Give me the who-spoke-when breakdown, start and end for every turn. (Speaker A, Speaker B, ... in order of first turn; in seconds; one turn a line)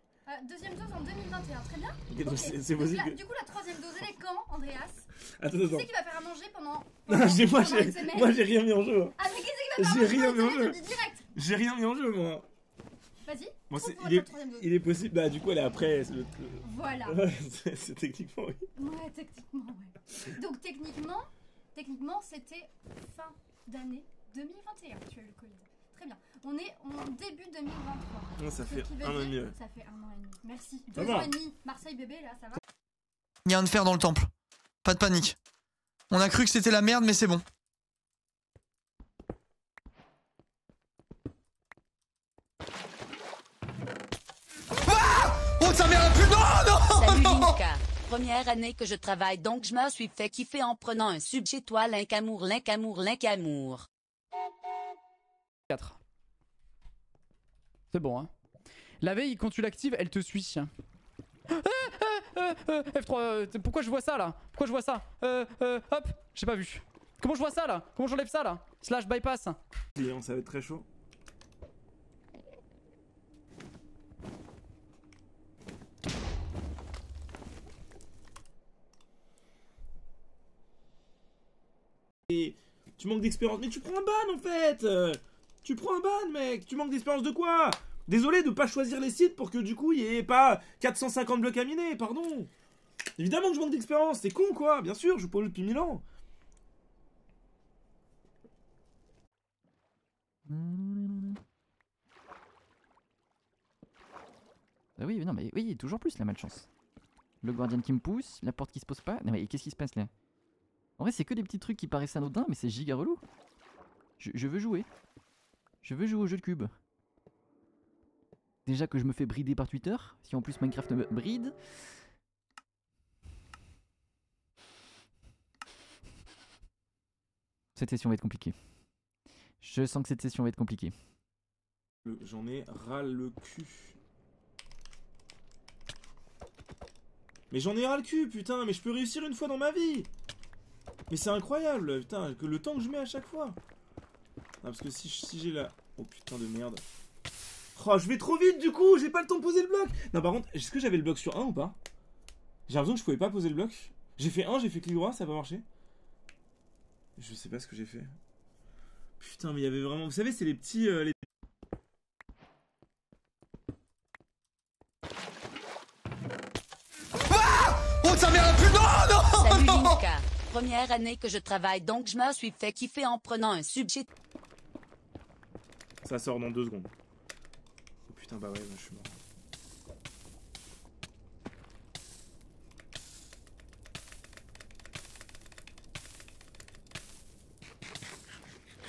Speaker A: 0.3-8.5
Speaker B: 2.1-3.2
Speaker B: 5.4-5.9
Speaker B: 7.1-9.2
Speaker A: 9.2-11.3
Speaker B: 9.7-12.5
Speaker A: 13.3-14.7
Speaker B: 13.7-18.7
Speaker A: 16.6-17.2
Speaker A: 18.8-32.6
Speaker B: 28.4-29.6
Speaker B: 30.9-31.4
Speaker C: 33.5-34.3
Speaker C: 34.8-35.4
Speaker C: 36.1-37.4
Speaker C: 44.9-47.5
Speaker D: 47.0-53.9
Speaker E: 55.7-56.0
Speaker E: 57.9-58.3
Speaker E: 59.0-60.7
Speaker E: 61.5-69.6
Speaker B: 70.0-70.9
Speaker B: 82.3-92.5
Speaker B: 93.2-96.0
Speaker F: 100.5-101.4
Speaker F: 105.0-106.7
Speaker F: 107.4-110.1
Speaker F: 111.0-113.2
Speaker F: 114.2-114.9
Speaker F: 115.8-116.7
Speaker F: 118.7-122.0
Speaker F: 127.8-128.6
Speaker F: 129.6-130.9
Speaker B: 132.1-134.0
Speaker B: 137.5-140.1
Speaker B: 141.1-143.6
Speaker B: 144.6-146.8
Speaker B: 147.8-151.8
Speaker B: 152.7-155.7
Speaker B: 157.2-158.1
Speaker B: 159.2-161.2
Speaker C: 167.3-170.0
Speaker D: 169.4-174.1
Speaker B: 176.0-176.9
Speaker B: 178.1-179.2